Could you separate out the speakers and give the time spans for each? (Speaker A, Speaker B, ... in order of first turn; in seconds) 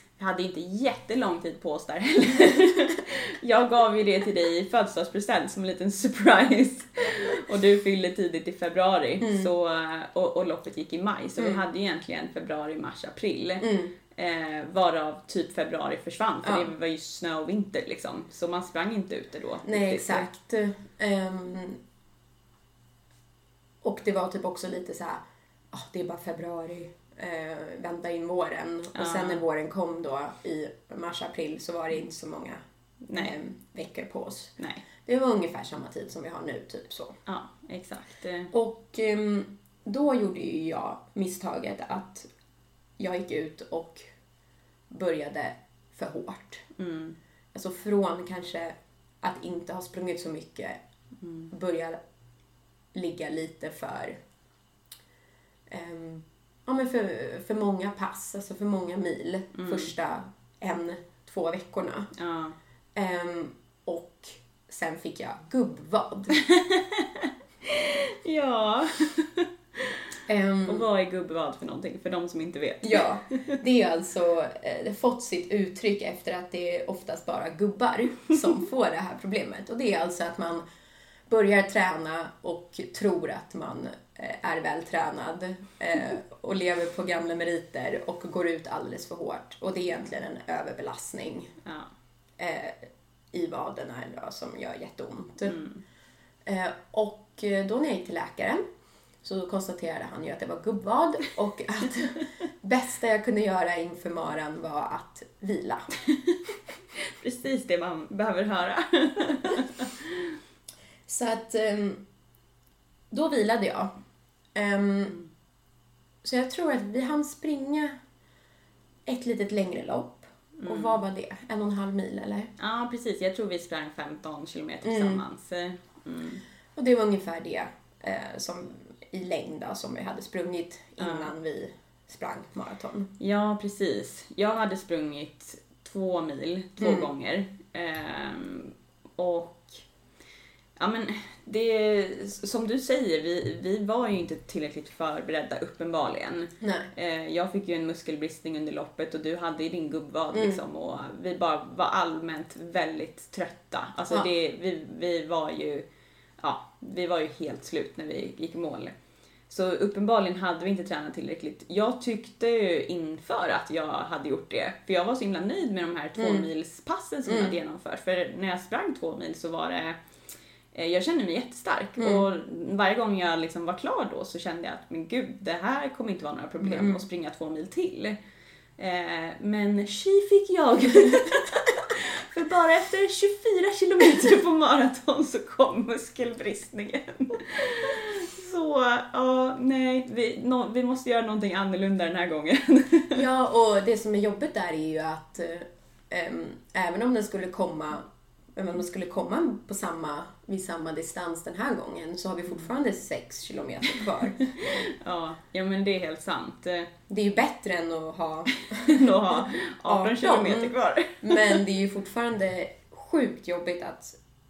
Speaker A: 0.2-20.3, 28.9-29.4, 33.0-33.3, 37.2-38.5, 46.8-47.1, 51.2-51.5, 59.5-59.9, 62.1-62.5, 66.3-70.0, 70.6-73.6, 91.6-91.9, 95.4-95.8, 106.1-106.4, 106.9-110.3, 120.6-121.0, 122.6-126.4, 131.0-131.3, 133.2-139.7, 140.8-155.8, 156.4-158.9, 159.5-170.0, 170.7-178.2, 178.8-193.2, 204.0-206.9, 208.6-211.6
Speaker B: 9.2-9.5, 13.6-13.9, 16.4-16.7, 19.6-21.8, 23.8-32.6, 33.1-37.2, 38.5-42.3, 43.0-44.1, 44.9-46.6, 47.5-50.8, 51.5-52.0, 52.9-54.2, 55.7-62.1, 62.9-66.3, 70.3-70.8, 72.8-80.6, 81.3-91.5, 92.4-95.6, 96.4-98.6, 99.2-105.9, 111.1-112.0, 113.1-113.9, 114.5-115.2, 116.2-118.0, 119.0-122.5, 124.8-125.2, 126.7-133.1, 136.8-137.1, 146.6-146.9, 150.3-150.6, 166.2-166.4, 167.2-167.5, 172.0-172.2, 176.6-177.0, 193.1-204.4, 207.1-214.2